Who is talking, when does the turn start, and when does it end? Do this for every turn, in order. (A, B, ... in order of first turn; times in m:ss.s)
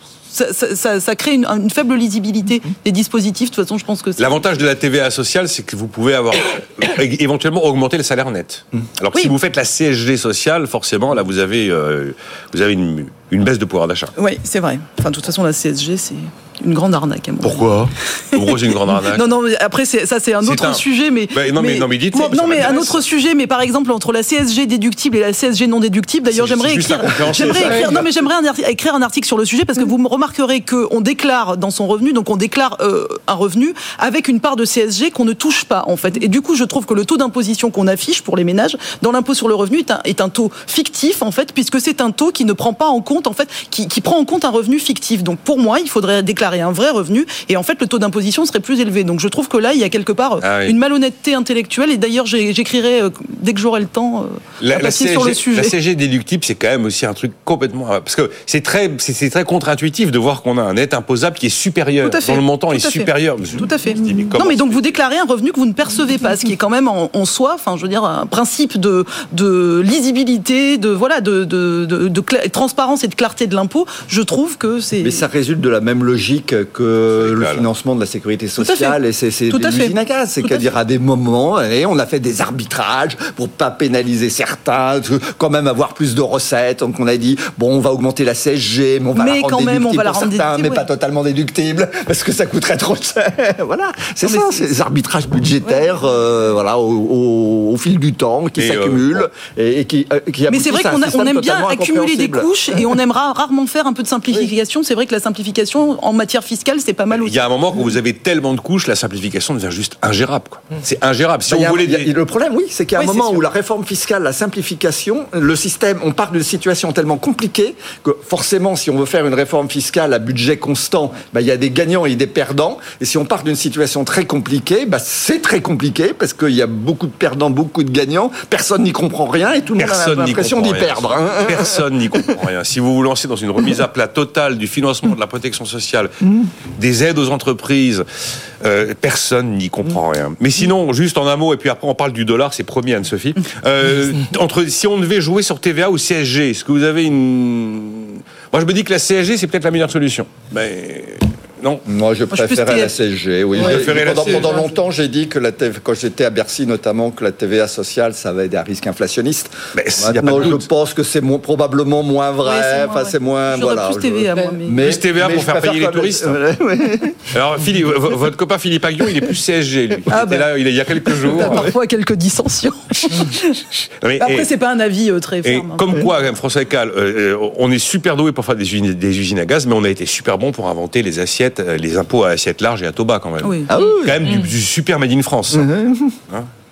0:00.3-0:04.4 A
0:04.2-0:14.1 B
0:14.2-0:17.7 A
0:17.4-0:19.3 B
0:18.3-0:55.7 A
0:20.4-0:23.0 B
0:26.3-0:28.2 B
0:50.4-0:50.7 B
0:54.6-1:04.9 B
1:02.0-1:15.2 A
1:15.0-1:43.0 C
1:17.2-1:17.6 B
1:18.6-1:18.9 A
1:19.5-1:19.9 A
1:29.2-1:30.8 A
1:34.2-1:34.6 A
1:38.6-1:39.3 B
1:40.5-1:47.4 A
1:47.1-1:52.1 B
1:51.5-2:12.4 C
1:53.0-1:53.4 A
2:09.8-2:18.0 B
2:18.6-2:31.8 B
2:31.8-2:47.2 C
2:32.3-2:32.9 A
2:33.5-2:34.6 B
2:33.6-2:34.6 A
2:39.7-2:40.7 B
2:42.4-2:44.8 A
2:44.8-2:46.4 B
2:47.3-2:51.7 B
2:50.1-2:50.5 A
2:51.0-2:53.7 A
2:54.0-2:54.5 B
2:54.2-2:56.0 A
2:55.4-3:05.7 B
3:03.4-3:03.7 A
3:03.7-3:04.2 C
3:05.5-3:06.2 C